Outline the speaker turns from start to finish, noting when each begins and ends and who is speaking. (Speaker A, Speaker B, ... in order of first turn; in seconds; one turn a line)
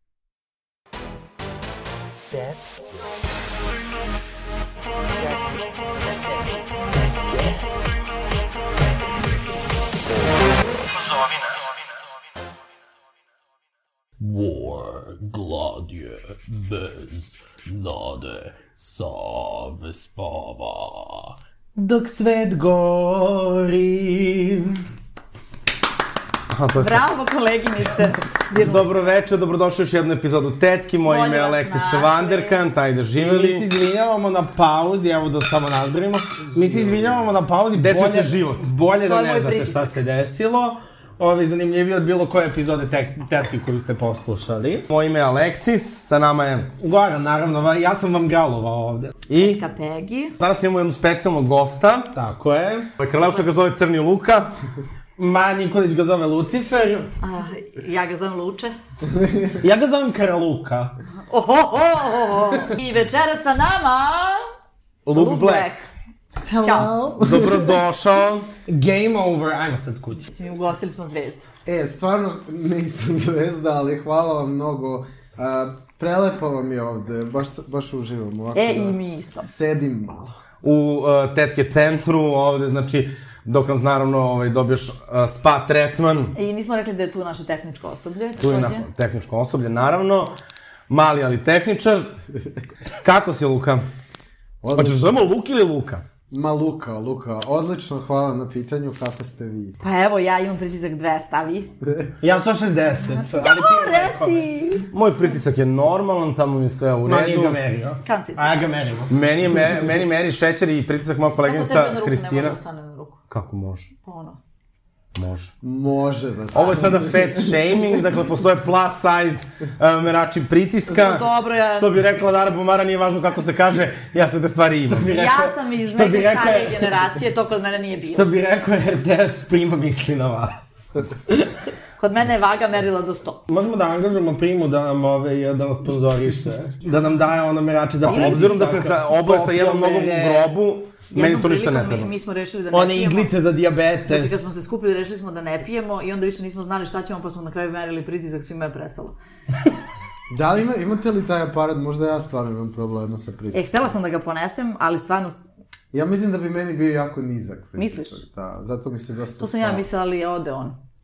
Speaker A: 5.2-5.7
Speaker A: 14.2-24.8
Speaker B: 26.5-27.0
Speaker C: 26.8-29.1
Speaker B: 28.5-33.7
Speaker C: 31.1-32.6
Speaker A: 33.2-44.8
Speaker B: 37.8-38.7
Speaker C: 39.0-39.9
Speaker B: 44.9-46.7
Speaker A: 46.8-49.1
Speaker B: 49.3-49.6
Speaker C: 49.4-50.4
Speaker B: 50.4-52.1
Speaker A: 52.1-52.9
Speaker B: 53.0-54.5
Speaker A: 55.2-57.1
Speaker C: 57.2-58.8
Speaker D: 59.1-59.5
Speaker A: 59.6-61.0
Speaker C: 61.3-64.5
Speaker B: 65.1-65.7
Speaker C: 65.1-65.9
Speaker D: 66.5-67.8
Speaker C: 66.6-66.9
Speaker B: 67.2-68.5
Speaker A: 68.7-70.3
Speaker C: 70.2-71.5
Speaker D: 71.7-80.3
Speaker C: 78.5-79.5
Speaker B: 80.6-86.4
Speaker C: 86.3-88.9
Speaker B: 88.4-90.3
Speaker B: 90.9-92.1
Speaker B: 93.0-93.8
Speaker D: 94.6-95.2
Speaker B: 94.7-96.0
Speaker D: 96.3-99.8
Speaker C: 99.8-101.7
Speaker A: 102.2-104.5
Speaker C: 103.2-104.9
Speaker B: 104.9-107.6
Speaker A: 107.1-109.1
Speaker C: 108.0-109.0
Speaker B: 109.1-112.6
Speaker C: 111.4-113.2
Speaker B: 113.3-113.9
Speaker C: 114.0-114.4
Speaker B: 115.2-115.5
Speaker D: 115.6-117.5
Speaker B: 116.5-125.1
Speaker C: 120.9-121.9
Speaker A: 124.9-126.9
Speaker C: 125.1-128.3
Speaker A: 128.1-130.7
Speaker C: 132.0-133.4
Speaker A: 133.5-140.5
Speaker B: 138.0-142.1
Speaker C: 138.1-138.7
Speaker C: 141.1-143.3
Speaker A: 142.7-144.4
Speaker C: 144.1-149.2
Speaker D: 150.3-153.9
Speaker C: 153.5-155.4
Speaker D: 155.9-159.8
Speaker C: 157.8-158.2
Speaker C: 159.4-160.8